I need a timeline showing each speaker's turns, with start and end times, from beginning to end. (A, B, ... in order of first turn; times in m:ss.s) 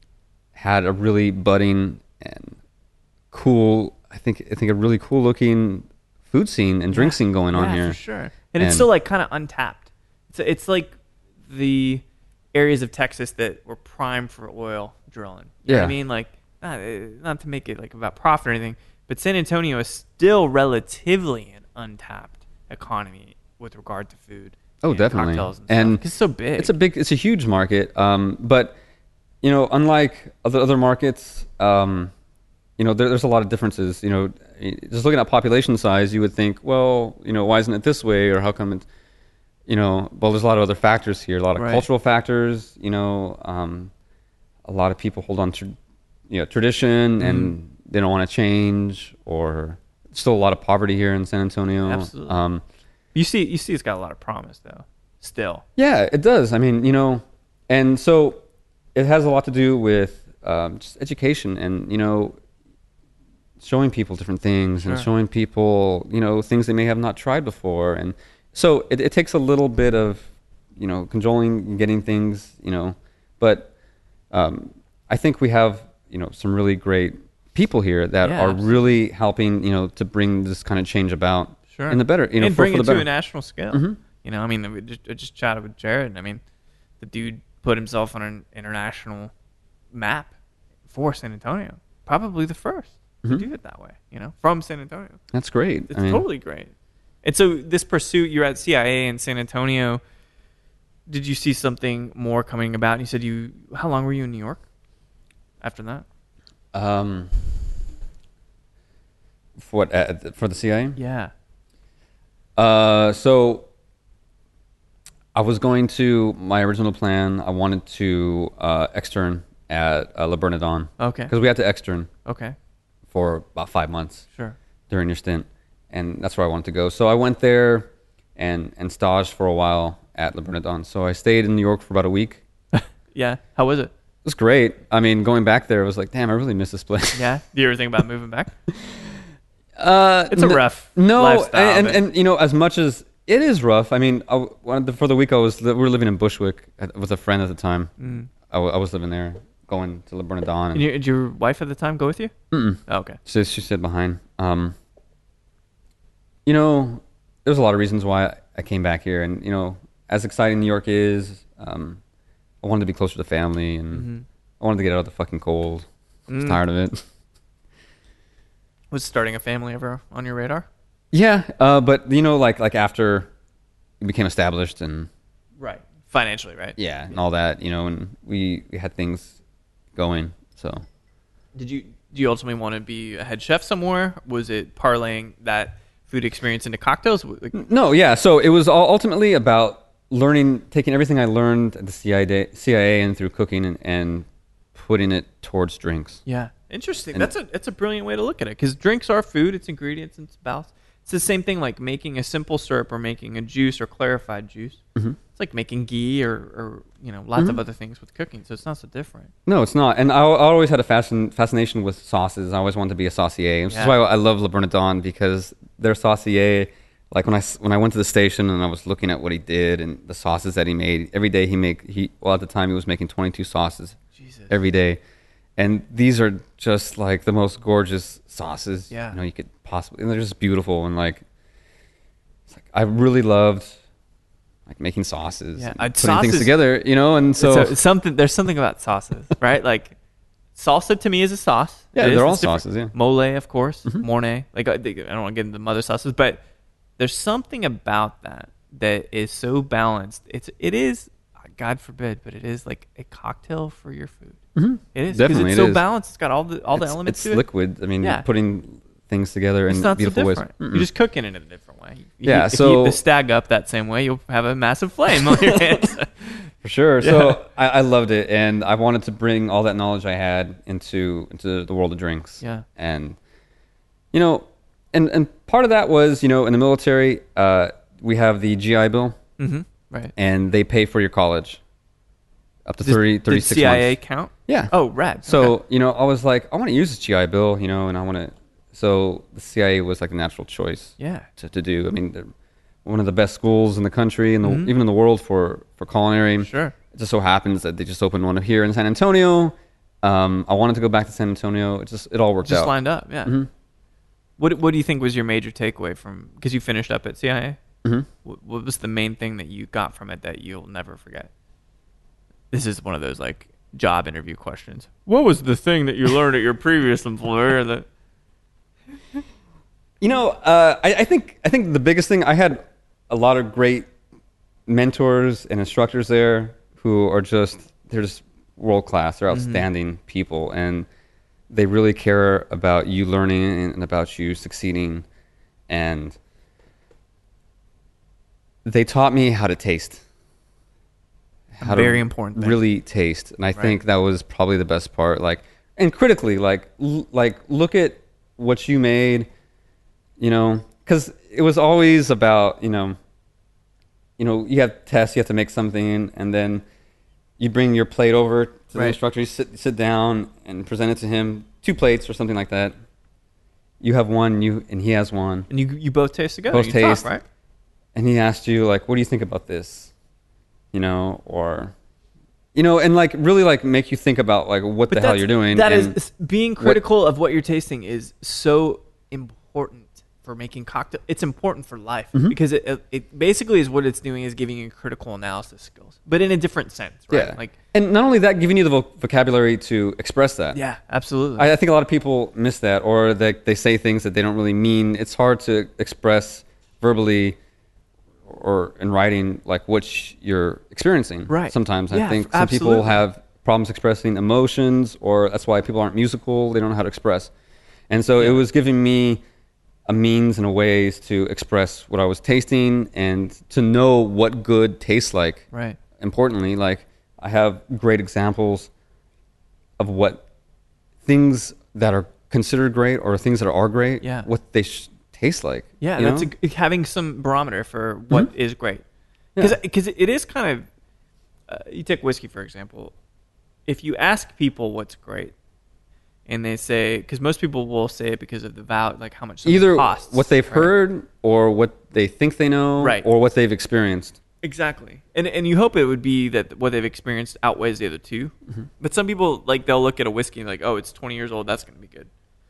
0:00.6-0:02.6 A
0:03.3-0:08.0 A
0:06.9-0:11.0 B
0:08.6-0:08.9 A
0:11.5-0:12.0 B
0:12.5-0:26.7 B
0:15.7-0:16.0 A
0:24.8-0:26.0 A
0:26.6-0:28.8 A
0:29.4-0:32.1 A
0:32.8-0:38.8 A
0:39.7-0:43.9 A
0:41.6-0:41.9 B
0:44.7-0:45.8 A
0:46.3-0:52.6 A
0:47.2-0:47.5 B
0:51.8-0:52.4 B
0:53.1-0:55.6 B
0:55.8-0:58.4 A
0:59.0-1:02.4 A
1:03.6-1:13.7 A
1:04.8-1:05.1 B
1:14.3-1:23.1 A
1:18.2-1:18.8 B
1:21.7-1:26.4 B
1:23.7-1:24.0 A
1:27.0-1:29.3 B
1:29.9-1:30.3 B
1:30.9-1:35.2 B
1:35.3-1:36.2 A
1:35.9-1:36.7 B
1:37.2-1:40.0 B
1:41.1-1:44.6 B
1:45.6-1:46.0 B
1:46.7-1:47.4 A
1:49.6-1:51.0 A
1:51.0-1:51.3 B
1:52.6-1:53.7 A
1:55.3-2:02.1 A
2:01.0-2:01.3 B
2:02.2-2:02.6 B
2:03.1-2:04.2 A
2:04.9-2:12.4 A
2:12.8-2:13.9 B
2:14.2-2:17.2 A
2:17.1-2:18.5 B
2:18.7-2:19.0 A
2:19.8-2:30.9 A
2:20.3-2:22.0 B
2:28.0-2:28.3 B
2:30.7-2:32.3 B
2:32.5-2:34.8 A
2:32.9-2:33.2 B
2:36.5-2:42.0 A
2:42.6-2:44.1 A
2:43.9-2:44.2 B
2:44.6-2:47.0 A
2:46.3-2:46.6 B
2:48.9-2:50.7 B
2:51.1-2:53.3 A
2:54.0-2:55.1 A
2:55.6-2:56.8 B
2:56.8-2:59.4 A
3:00.0-3:00.8 A
3:01.6-3:07.6 B
3:07.5-3:16.2 A
3:16.3-3:24.8 B
3:25.4-3:29.3 B
3:29.5-3:44.0 A
3:33.7-3:34.0 B
3:44.2-3:44.5 B
3:44.5-3:45.0 A
3:45.6-3:51.2 A
3:48.9-3:49.2 B
3:52.5-3:53.8 A
3:54.7-3:57.8 A
3:55.6-3:56.5 B
3:57.4-4:00.0 B
4:00.6-4:06.4 B
4:02.0-4:02.9 A
4:07.0-4:14.4 B
4:14.6-4:15.8 A
4:14.9-4:17.4 B
4:16.8-4:20.9 A
4:18.0-4:18.3 B
4:19.7-4:26.4 B
4:22.2-4:23.0 A
4:25.2-4:25.9 A
4:26.6-4:33.2 A
4:27.0-4:27.4 B
4:34.1-4:39.2 A
4:39.4-4:40.1 B
4:40.2-4:41.6 A
4:42.7-4:44.0 A
4:42.8-4:45.6 B
4:44.5-4:44.7 A
4:45.2-4:52.3 A
4:51.0-4:51.3 B
4:52.8-5:02.7 A
4:54.4-4:54.7 B
4:56.4-4:56.8 B
5:02.4-5:03.4 B
5:04.4-5:07.6 B
5:08.2-5:11.3 B
5:12.5-5:17.9 B
5:20.0-5:23.9 A
5:24.7-5:30.9 A
5:29.3-5:29.6 B
5:31.5-5:35.1 A
5:35.7-5:36.2 A
5:38.6-5:40.0 A
5:41.5-5:49.3 A
5:41.6-5:42.6 B
5:50.2-5:53.0 A
5:54.2-5:56.6 A
5:57.4-6:02.7 A
6:03.8-6:05.5 A
6:05.5-6:07.2 B
6:06.5-6:07.1 A
6:08.0-6:09.9 A
6:10.7-6:11.7 A
6:12.6-6:16.0 A
6:14.9-6:27.5 B
6:27.1-6:30.6 A
6:30.5-6:31.5 B
6:31.4-6:37.4 A
6:38.3-6:47.3 A
6:41.3-6:43.0 B
6:47.9-6:49.2 A
6:48.2-6:48.4 B
6:49.9-6:55.4 A
6:55.5-6:55.8 B
6:56.0-6:58.7 A
6:59.8-7:00.2 A
7:01.0-7:06.3 A
7:04.0-7:04.3 B
7:05.8-7:08.8 B
7:09.4-7:10.7 B
7:11.5-7:12.9 B
7:13.7-7:15.3 B
7:16.3-7:20.7 B
7:19.4-7:24.2 A
7:22.8-7:23.1 B
7:24.4-7:32.1 B